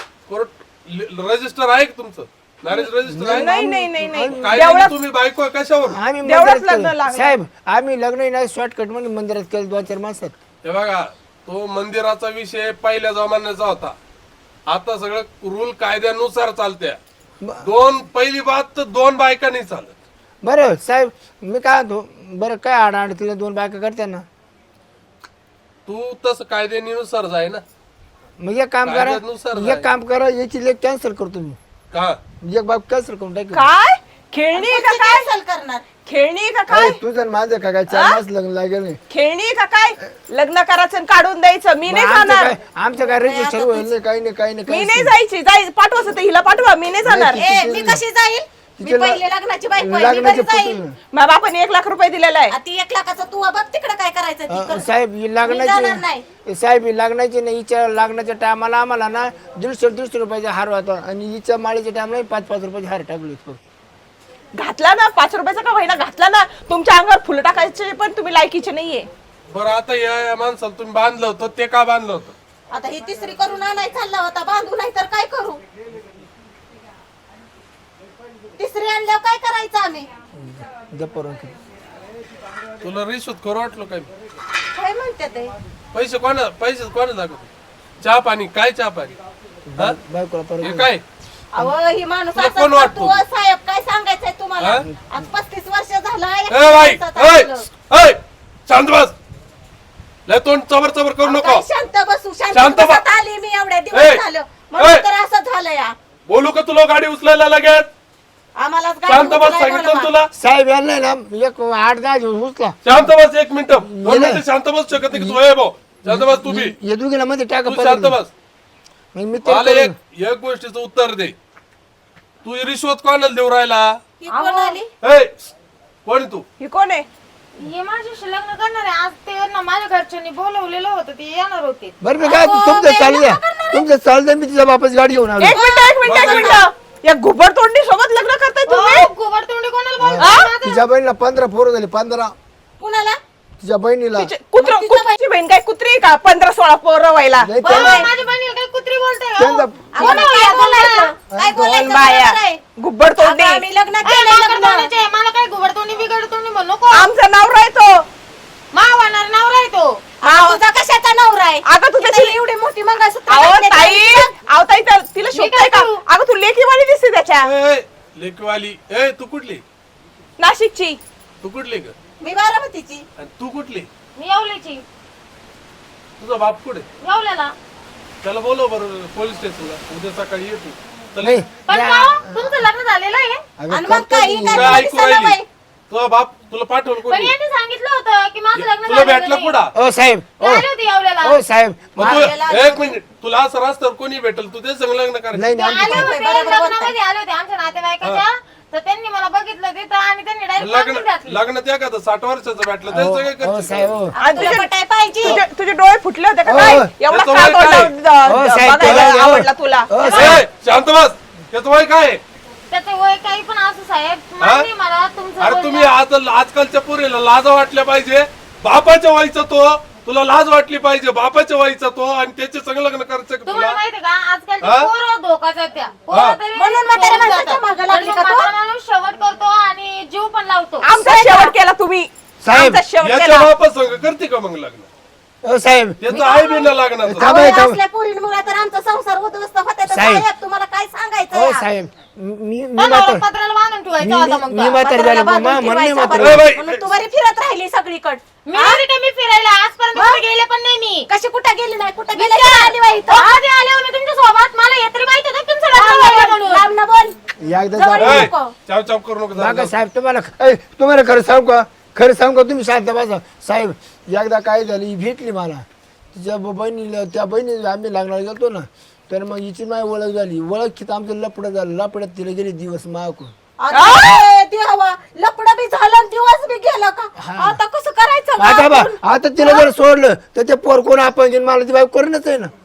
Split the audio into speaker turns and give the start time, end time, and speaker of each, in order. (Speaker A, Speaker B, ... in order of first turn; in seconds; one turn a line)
Speaker A: 0.3-3.5
Speaker B: 2.7-4.9
Speaker C: 3.0-4.6
Speaker A: 4.1-6.0
Speaker C: 5.9-10.3
Speaker B: 6.2-7.4
Speaker A: 10.6-13.9
Speaker A: 14.7-17.0
Speaker C: 17.4-17.6
Speaker A: 17.6-19.9
Speaker C: 20.4-24.2
Speaker A: 25.9-27.6
Speaker C: 28.4-31.6
Speaker A: 28.8-29.9
Speaker A: 31.9-32.2
Speaker C: 32.4-33.7
Speaker B: 33.5-35.2
Speaker D: 34.5-35.9
Speaker B: 36.0-37.0
Speaker C: 36.7-39.0
Speaker B: 37.9-38.2
Speaker B: 39.1-42.5
Speaker C: 41.9-45.1
Speaker D: 43.1-43.9
Speaker B: 44.7-47.4
Speaker C: 47.0-48.0
Speaker D: 47.3-50.8
Speaker C: 48.8-49.2
Speaker C: 49.8-50.9
Speaker B: 51.1-52.5
Speaker D: 52.5-54.9
Speaker C: 54.5-63.6
Speaker D: 55.4-56.2
Speaker B: 64.6-69.1
Speaker A: 69.5-72.3
Speaker D: 72.7-75.6
Speaker D: 78.6-80.1
Speaker C: 80.3-81.6
Speaker A: 82.8-84.1
Speaker D: 84.7-85.5
Speaker A: 85.9-87.5
Speaker A: 88.0-89.1
Speaker C: 89.7-90.9
Speaker A: 90.6-91.0
Speaker D: 91.5-97.7
Speaker A: 92.3-93.2
Speaker A: 94.6-94.8
Speaker C: 94.8-95.2
Speaker A: 96.5-99.1
Speaker A: 100.3-101.7
Speaker D: 101.2-105.9
Speaker A: 102.5-103.0
Speaker A: 103.9-104.2
Speaker A: 104.8-105.0
Speaker A: 106.3-107.9
Speaker D: 108.5-110.1
Speaker A: 109.1-110.3
Speaker C: 110.3-112.9
Speaker A: 112.8-116.7
Speaker C: 113.7-114.4
Speaker C: 115.1-115.4
Speaker C: 116.0-118.2
Speaker A: 117.6-118.3
Speaker C: 119.1-119.9
Speaker A: 119.4-121.3
Speaker A: 122.4-124.0
Speaker D: 124.2-124.9
Speaker E: 124.3-124.8
Speaker A: 125.0-125.4
Speaker A: 126.0-126.4
Speaker B: 126.6-127.1
Speaker E: 127.6-131.9
Speaker C: 132.0-135.6
Speaker D: 132.2-133.9
Speaker B: 135.4-139.1
Speaker D: 135.5-136.6
Speaker A: 136.0-136.7
Speaker E: 138.7-140.8
Speaker C: 140.0-142.3
Speaker B: 140.2-140.5
Speaker D: 142.8-143.2
Speaker C: 143.6-144.3
Speaker B: 144.1-148.1
Speaker D: 144.6-145.2
Speaker C: 147.4-148.1
Speaker E: 147.6-151.1
Speaker C: 149.4-150.2
Speaker D: 149.9-152.6
Speaker B: 151.5-153.6
Speaker D: 153.2-154.9
Speaker E: 154.0-157.1
Speaker B: 156.9-158.1
Speaker E: 158.7-160.0
Speaker D: 160.2-164.3
Speaker B: 160.2-160.6
Speaker B: 161.7-162.3
Speaker B: 163.3-167.5
Speaker E: 165.3-166.0
Speaker A: 167.4-169.6
Speaker B: 170.4-171.0
Speaker A: 171.4-171.9
Speaker D: 172.2-173.0
Speaker A: 173.2-173.9
Speaker E: 174.2-174.8
Speaker A: 176.2-176.9
Speaker E: 177.0-177.5
Speaker A: 178.2-181.4
Speaker C: 181.2-182.6
Speaker E: 181.6-183.4
Speaker C: 183.6-184.8
Speaker D: 183.7-185.4
Speaker A: 184.4-185.4
Speaker A: 185.9-187.3
Speaker E: 187.0-189.6
Speaker A: 188.5-189.7
Speaker C: 189.7-190.7
Speaker E: 190.4-191.4
Speaker C: 191.2-192.3
Speaker A: 191.9-195.6
Speaker D: 192.0-192.9
Speaker C: 195.3-196.1
Speaker E: 195.5-201.4
Speaker D: 195.8-196.9
Speaker A: 200.6-203.9
Speaker C: 202.9-204.2
Speaker D: 204.1-205.4
Speaker B: 204.2-204.7
Speaker B: 205.2-210.4
Speaker C: 206.4-206.9
Speaker A: 207.1-207.9
Speaker C: 208.2-210.4
Speaker A: 210.1-212.2
Speaker E: 212.7-215.9
Speaker A: 214.4-214.7
Speaker A: 215.4-223.8
Speaker E: 223.4-230.9
Speaker A: 224.6-224.9
Speaker A: 226.1-226.4
Speaker D: 226.5-228.5
Speaker B: 230.8-233.5
Speaker D: 230.9-231.5
Speaker C: 232.4-232.8
Speaker A: 233.0-234.9
Speaker C: 235.4-236.1
Speaker A: 236.0-237.4
Speaker D: 236.1-241.6
Speaker C: 237.1-237.8
Speaker C: 239.9-240.2
Speaker C: 241.3-243.2
Speaker E: 242.8-244.8
Speaker C: 244.0-246.5
Speaker D: 244.8-248.8
Speaker A: 246.2-246.8
Speaker E: 248.4-251.1
Speaker D: 249.9-250.2
Speaker D: 251.1-253.4
Speaker E: 252.1-256.7
Speaker D: 255.7-257.1
Speaker C: 257.4-258.3
Speaker D: 257.7-258.5
Speaker A: 258.0-259.7
Speaker C: 259.4-273.3
Speaker D: 273.6-279.7
Speaker B: 273.7-274.2
Speaker C: 277.2-277.6
Speaker C: 278.4-282.5